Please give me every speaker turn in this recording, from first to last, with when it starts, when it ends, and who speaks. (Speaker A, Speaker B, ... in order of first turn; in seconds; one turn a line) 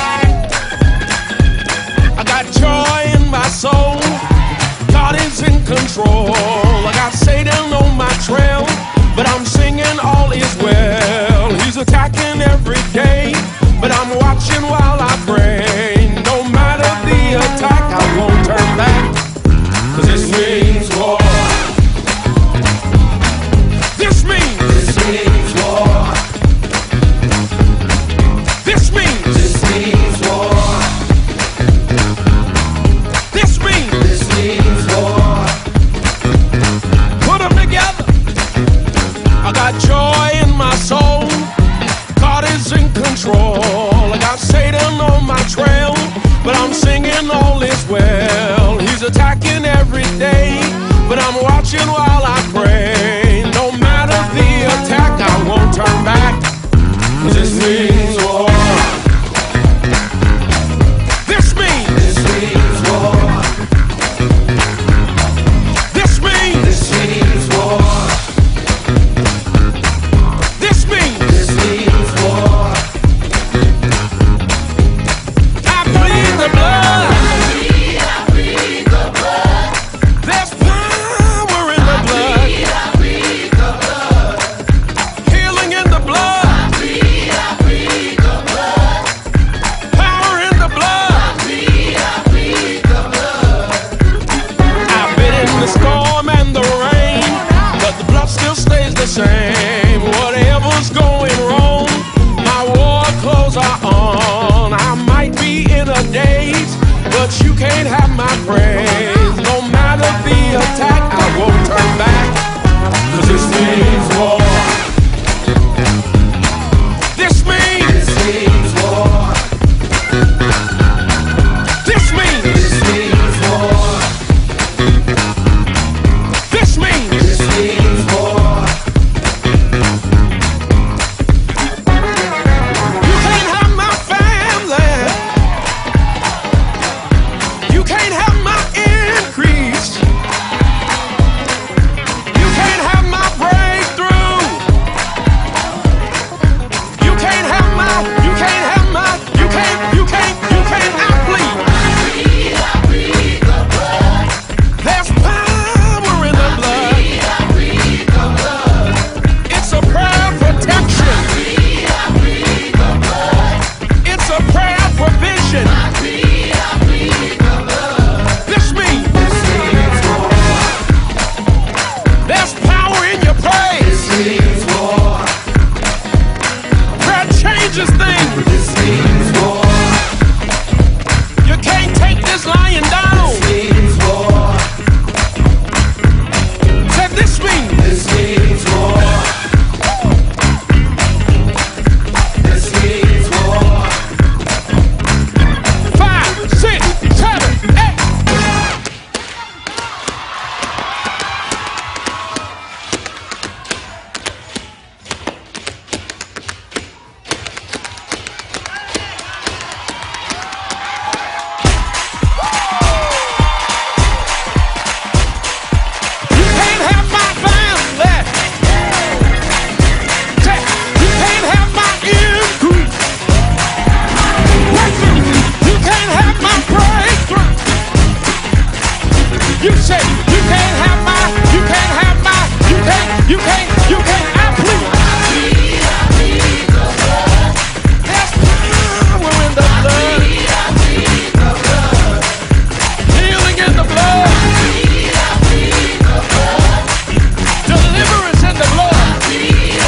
Speaker A: 2.1-19.2
Speaker A: 19.9-21.7
Speaker A: 23.9-26.2
Speaker A: 28.6-30.9
Speaker A: 33.3-35.5
Speaker A: 37.2-38.1
Speaker A: 39.4-56.5
Speaker A: 57.1-59.1
Speaker A: 61.2-63.4
Speaker A: 65.9-68.1
Speaker A: 70.5-72.7
Speaker A: 75.6-77.5
Speaker A: 80.1-83.0
Speaker A: 85.2-87.0
Speaker A: 89.9-92.0
Speaker A: 94.8-112.5
Speaker A: 113.0-114.8
Speaker A: 117.1-119.3
Speaker A: 121.8-124.0
Speaker A: 126.4-128.6
Speaker A: 133.0-135.4
Speaker A: 137.7-140.1
Speaker A: 142.3-144.8
Speaker A: 146.9-151.8
Speaker A: 154.8-157.4
Speaker A: 159.3-161.6
Speaker A: 164.0-166.0
Speaker A: 168.2-170.2
Speaker A: 172.2-175.2
Speaker A: 176.9-179.7
Speaker A: 181.4-184.5
Speaker A: 186.8-189.2
Speaker A: 192.9-193.8
Speaker A: 195.8-198.0
Speaker A: 216.3-218.5
Speaker A: 220.4-223.1
Speaker A: 224.5-227.6
Speaker A: 229.6-235.1
Speaker A: 238.0-240.6
Speaker A: 243.1-244.6
Speaker A: 247.6-249.4